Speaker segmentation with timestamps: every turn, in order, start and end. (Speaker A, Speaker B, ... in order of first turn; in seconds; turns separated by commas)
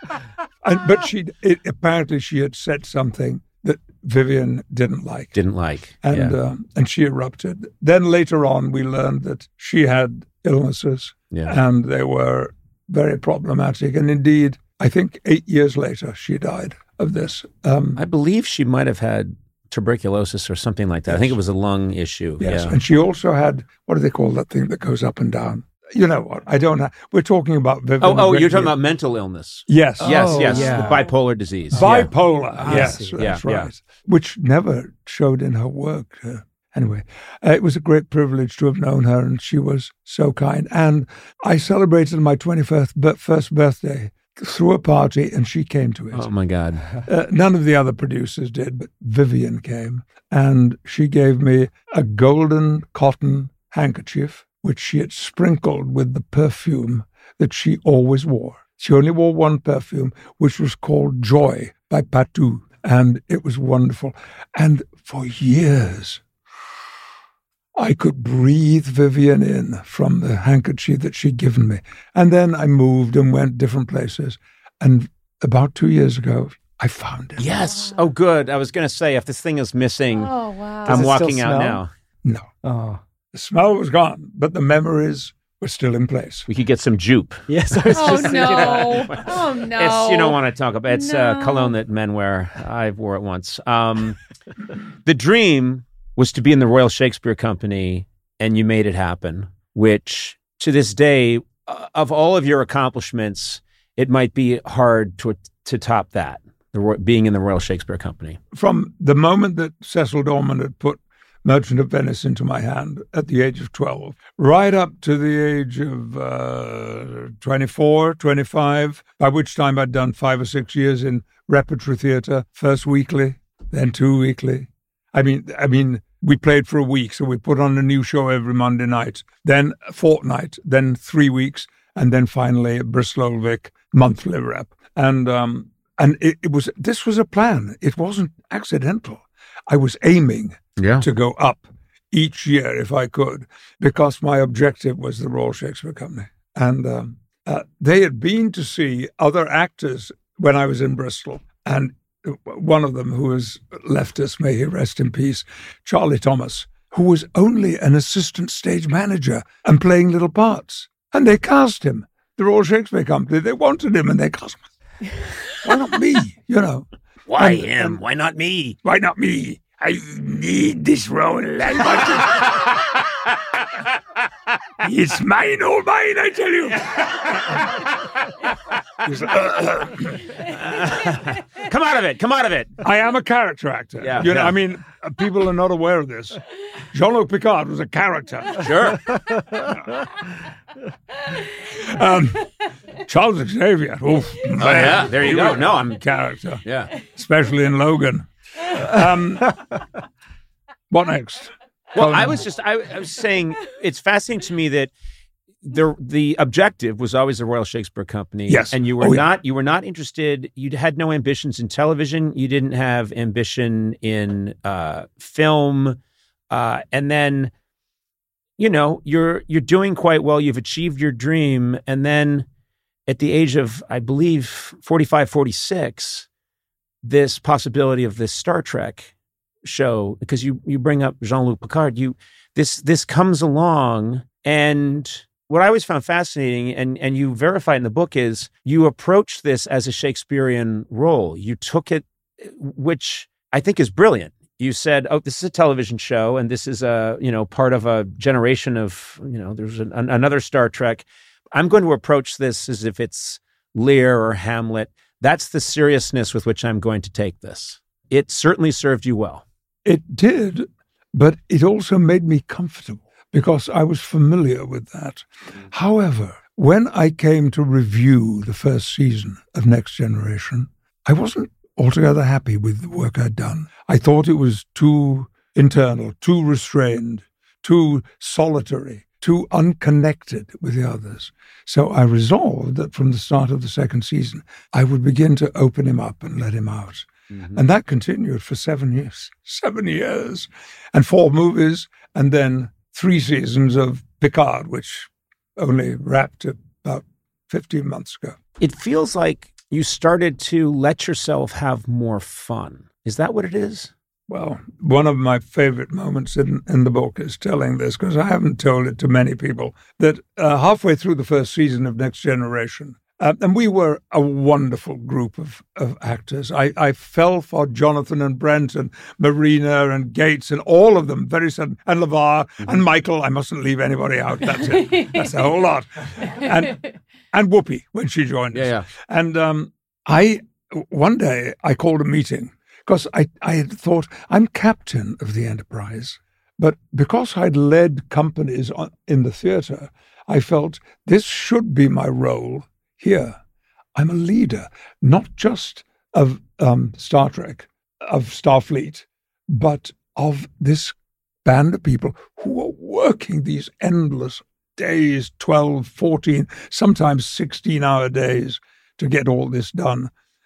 Speaker A: 0.6-5.3, Speaker B: 5.3-6.3, Speaker A: 6.0-18.0, Speaker B: 11.3-11.6, Speaker B: 17.9-22.8, Speaker A: 21.1-21.4, Speaker A: 22.4-28.8, Speaker B: 28.0-33.7, Speaker A: 29.7-30.9, Speaker C: 30.0-31.1, Speaker A: 31.7-46.3, Speaker C: 32.6-33.3, Speaker B: 46.1-46.9, Speaker A: 46.9-66.2, Speaker A: 67.8-77.5, Speaker B: 77.4-80.3, Speaker D: 77.7-78.0, Speaker D: 80.2-81.0, Speaker C: 80.8-81.8, Speaker B: 80.8-81.9, Speaker C: 82.6-83.0, Speaker A: 83.3-86.5, Speaker B: 86.5-94.2, Speaker C: 87.5-89.2, Speaker D: 87.9-91.7, Speaker B: 95.0-108.4, Speaker A: 108.5-164.6, Speaker B: 140.8-141.1, Speaker A: 165.6-168.0, Speaker B: 167.3-168.8, Speaker A: 168.8-173.0, Speaker A: 174.8-177.9, Speaker A: 179.0-180.3, Speaker B: 180.5-182.7, Speaker A: 182.8-186.4, Speaker B: 184.0-184.6, Speaker A: 186.9-188.9, Speaker B: 188.6-189.2, Speaker A: 191.7-199.6, Speaker B: 194.6-196.0, Speaker B: 196.6-196.9, Speaker A: 200.9-202.4, Speaker B: 201.9-204.9, Speaker B: 205.6-216.0, Speaker A: 208.5-209.3, Speaker B: 216.5-217.5, Speaker B: 218.6-222.4, Speaker B: 223.1-226.3, Speaker B: 227.0-229.1, Speaker B: 229.6-259.4, Speaker A: 259.8-298.4, Speaker B: 287.3-287.6, Speaker B: 298.6-303.9, Speaker A: 304.3-326.8, Speaker A: 327.3-343.4, Speaker B: 328.5-328.9, Speaker A: 343.9-360.1